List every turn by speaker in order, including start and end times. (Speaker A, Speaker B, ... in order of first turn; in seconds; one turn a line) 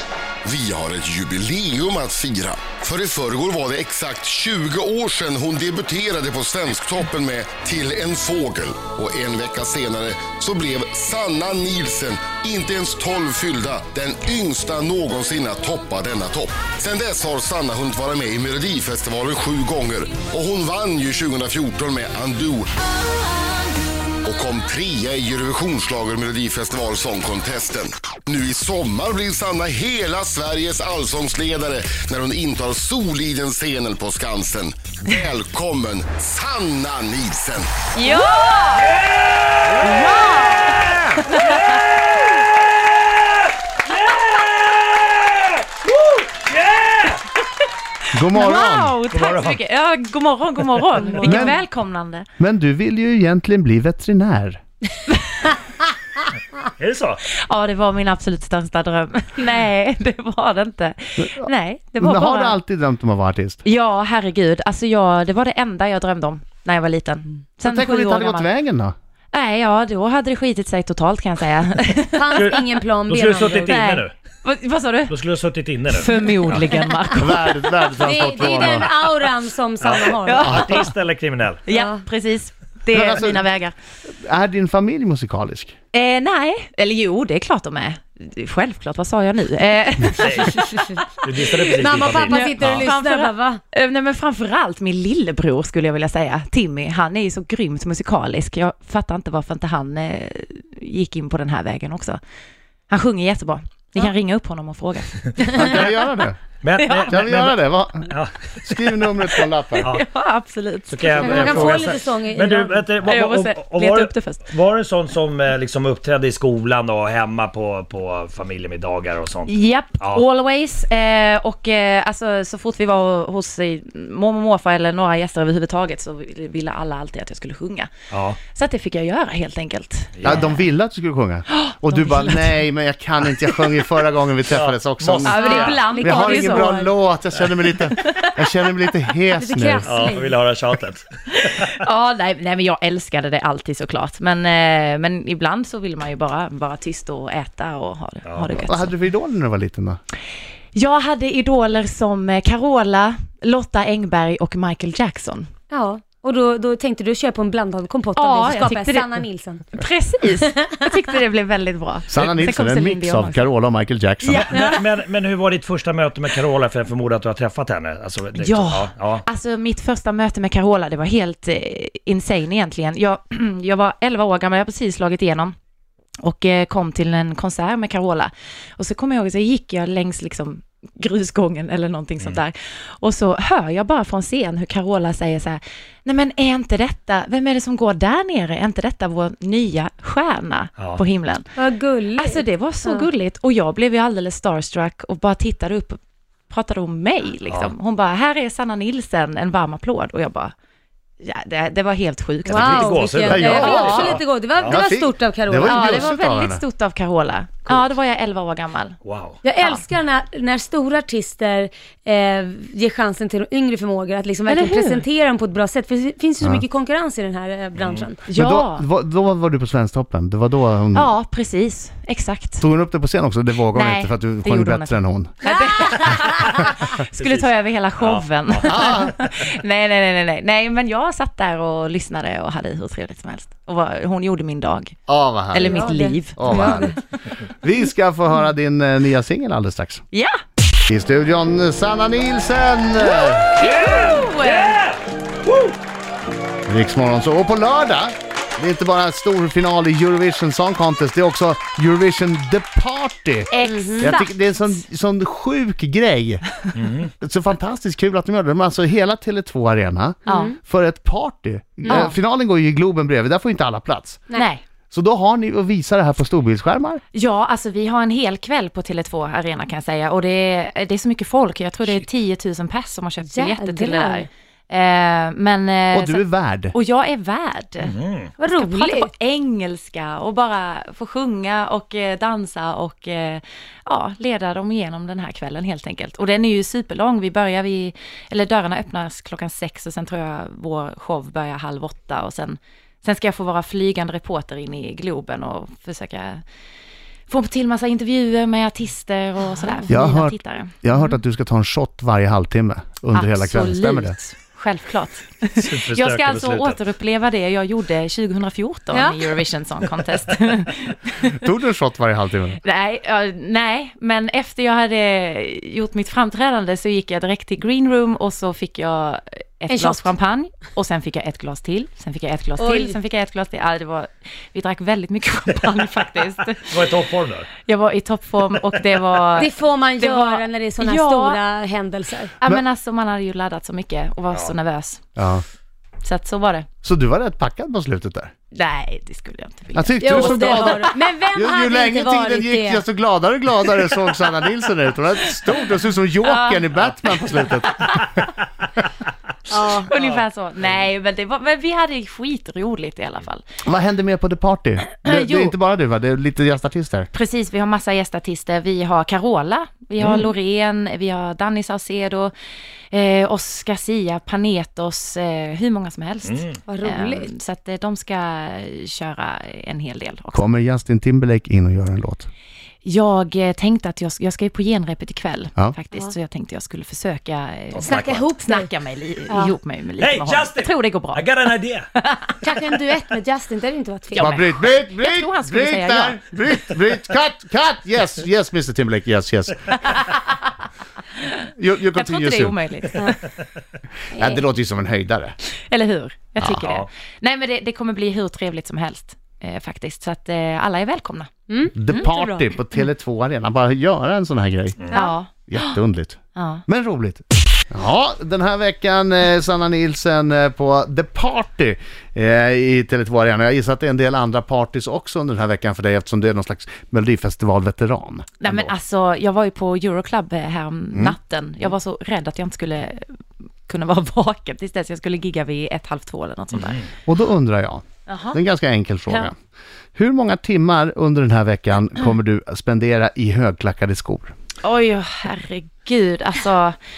Speaker A: 0.4-22.7
Speaker A: 24.2-37.9
Speaker B: 37.9-38.9
Speaker C: 38.5-47.2
Speaker B: 39.8-41.8
Speaker D: 48.1-49.0
Speaker B: 48.3-52.3
Speaker C: 49.1-49.6
Speaker D: 51.2-51.6
Speaker D: 52.4-54.6
Speaker B: 55.1-55.6
Speaker C: 56.8-57.2
Speaker B: 57.3-62.6
Speaker D: 61.2-61.5
Speaker D: 62.0-63.6
Speaker B: 63.6-68.5
Speaker D: 67.6-68.9
Speaker B: 69.3-72.6
Speaker E: 72.2-73.8
Speaker C: 72.3-74.1
Speaker B: 73.7-75.2
Speaker C: 75.1-76.6
Speaker B: 75.9-77.6
Speaker D: 77.1-78.9
Speaker E: 77.9-80.5
Speaker C: 79.8-81.6
Speaker B: 80.2-80.9
Speaker D: 80.5-80.8
Speaker B: 81.7-83.7
Speaker E: 81.7-82.0
Speaker D: 82.9-83.4
Speaker D: 84.1-85.8
Speaker B: 85.9-102.2
Speaker C: 90.1-92.9
Speaker E: 91.7-93.6
Speaker B: 102.9-106.0
Speaker D: 105.5-106.4
Speaker C: 106.6-108.4
Speaker B: 106.8-107.2
Speaker D: 107.1-109.9
Speaker B: 109.8-111.8
Speaker C: 110.9-120.2
Speaker E: 111.1-112.7
Speaker B: 113.0-114.5
Speaker B: 119.5-127.9
Speaker C: 128.1-128.4
Speaker B: 128.5-130.6
Speaker C: 130.2-130.5
Speaker D: 130.2-135.4
Speaker B: 131.5-132.6
Speaker C: 134.5-135.9
Speaker B: 135.2-136.9
Speaker E: 135.4-136.7
Speaker D: 136.0-140.1
Speaker B: 137.9-138.4
Speaker E: 139.4-140.3
Speaker C: 139.8-141.8
Speaker B: 141.3-148.9
Speaker C: 148.2-148.6
Speaker D: 148.7-150.0
Speaker B: 150.7-155.5
Speaker E: 155.7-159.6
Speaker B: 158.2-163.4
Speaker E: 160.5-160.9
Speaker D: 162.1-164.5
Speaker B: 164.2-164.8
Speaker C: 164.3-169.2
Speaker B: 168.4-175.6
Speaker B: 176.2-191.5
Speaker E: 191.6-193.1
Speaker B: 192.2-200.5
Speaker C: 197.5-197.7
Speaker B: 201.2-204.2
Speaker C: 202.4-204.8
Speaker E: 202.5-206.1
Speaker D: 203.3-204.0
Speaker D: 204.7-206.6
Speaker B: 205.6-209.0
Speaker C: 209.0-209.4
Speaker E: 209.4-218.2
Speaker B: 209.6-209.8
Speaker B: 214.5-215.0
Speaker C: 217.8-218.1
Speaker B: 218.3-218.8
Speaker D: 218.3-221.1
Speaker B: 220.9-222.6
Speaker D: 222.6-225.3
Speaker B: 223.7-235.0
Speaker E: 225.4-226.5
Speaker C: 227.2-228.8
Speaker D: 228.6-229.2
Speaker D: 235.1-236.9
Speaker B: 235.5-237.0
Speaker E: 235.6-236.9
Speaker D: 237.6-240.0
Speaker B: 240.1-240.4
Speaker D: 240.9-243.5
Speaker B: 243.3-244.8
Speaker C: 243.5-245.8
Speaker D: 246.7-256.4
Speaker B: 253.5-254.3
Speaker E: 253.6-254.2
Speaker C: 256.7-257.1
Speaker D: 257.2-264.2
Speaker B: 260.3-260.5
Speaker E: 260.3-260.6
Speaker E: 261.8-262.1
Speaker B: 261.9-262.1
Speaker B: 264.3-264.6
Speaker D: 264.9-267.0
Speaker B: 267.1-277.9
Speaker E: 273.2-274.3
Speaker D: 275.9-276.7
Speaker C: 277.8-278.3
Speaker E: 278.4-279.1
Speaker B: 278.5-296.4
Speaker B: 297.3-301.1
Speaker E: 299.6-299.9
Speaker D: 299.9-304.1
Speaker B: 303.1-311.4
Speaker C: 305.6-306.8
Speaker E: 308.9-309.2
Speaker D: 311.3-312.6
Speaker B: 312.6-326.9
Speaker E: 319.7-320.1
Speaker E: 322.6-323.0
Speaker C: 326.6-327.5
Speaker B: 327.6-331.4
Speaker E: 329.4-332.3
Speaker B: 332.4-335.0
Speaker D: 335.1-335.4
Speaker B: 336.0-336.7
Speaker D: 336.8-338.3
Speaker B: 338.5-341.0
Speaker D: 339.7-348.0
Speaker E: 340.0-342.8
Speaker B: 346.2-348.1
Speaker E: 349.5-349.9
Speaker B: 349.8-353.4
Speaker D: 353.6-357.1
Speaker B: 355.0-355.5
Speaker B: 357.1-362.3
Speaker B: 362.9-370.4
Speaker C: 366.2-366.6
Speaker E: 366.7-367.3
Speaker D: 370.3-372.3
Speaker B: 372.8-381.4
Speaker C: 377.7-378.2
Speaker E: 377.8-378.7
Speaker E: 379.3-379.6
Speaker C: 380.0-381.9
Speaker B: 381.9-382.3
Speaker E: 382.4-384.3
Speaker B: 384.1-386.2
Speaker D: 384.2-389.7
Speaker D: 391.6-392.6
Speaker B: 391.9-393.2
Speaker E: 394.1-394.4
Speaker D: 394.1-395.3
Speaker B: 395.7-401.3
Speaker C: 396.6-396.9
Speaker E: 401.5-402.4
Speaker D: 401.8-418.7
Speaker B: 404.9-405.8
Speaker B: 406.4-406.6
Speaker B: 418.4-426.9
Speaker D: 427.1-429.3
Speaker B: 428.1-428.4
Speaker D: 429.9-434.3
Speaker B: 434.6-436.8